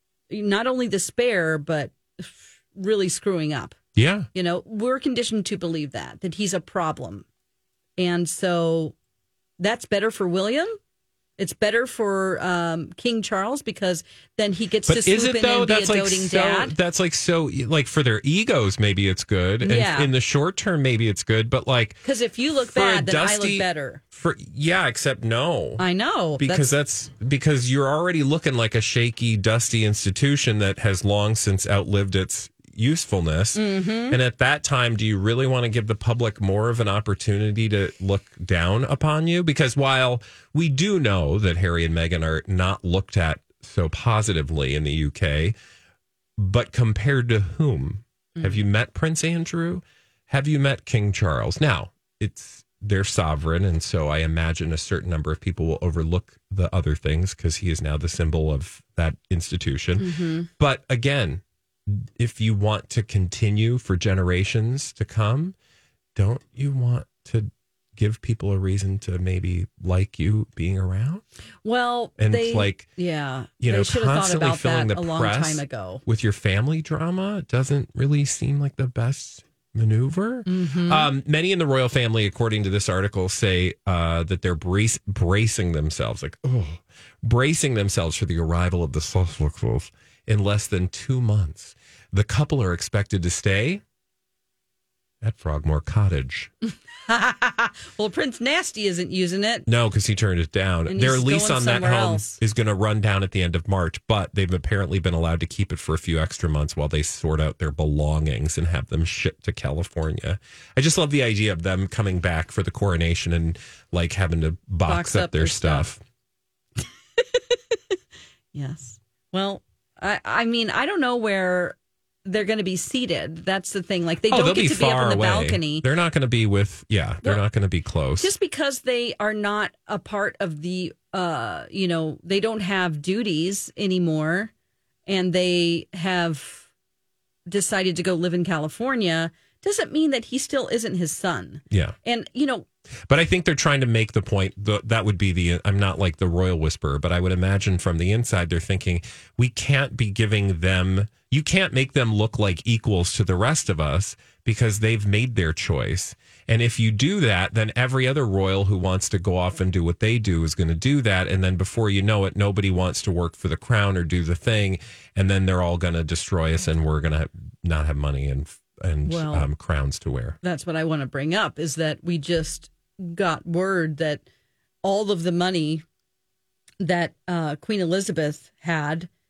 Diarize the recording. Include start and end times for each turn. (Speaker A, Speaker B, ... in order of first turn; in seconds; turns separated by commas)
Speaker A: 0.3-3.8, Speaker B: 4.0-4.3, Speaker A: 4.3-7.3, Speaker A: 8.0-8.9, Speaker A: 9.6-10.8, Speaker A: 11.4-16.8, Speaker B: 14.9-22.0, Speaker A: 19.6-20.1, Speaker A: 22.0-24.0, Speaker B: 22.6-25.8, Speaker A: 25.8-26.7, Speaker B: 26.4-45.5, Speaker A: 33.5-34.2, Speaker B: 46.4-65.5, Speaker A: 48.4-48.6, Speaker A: 60.0-60.5, Speaker B: 66.2-71.2, Speaker A: 71.6-76.0, Speaker B: 72.2-72.9, Speaker B: 73.6-93.8, Speaker A: 80.5-81.1, Speaker B: 95.2-96.5, Speaker A: 97.1-99.7, Speaker B: 99.7-116.0, Speaker A: 100.9-102.4, Speaker A: 114.9-115.9, Speaker A: 118.5-125.9, Speaker B: 124.3-128.3, Speaker A: 128.2-134.5, Speaker A: 135.1-136.7, Speaker A: 137.5-142.7, Speaker B: 141.7-142.0, Speaker B: 143.1-170.4, Speaker A: 169.1-169.5, Speaker A: 170.4-174.2, Speaker A: 174.8-175.8, Speaker A: 176.8-179.1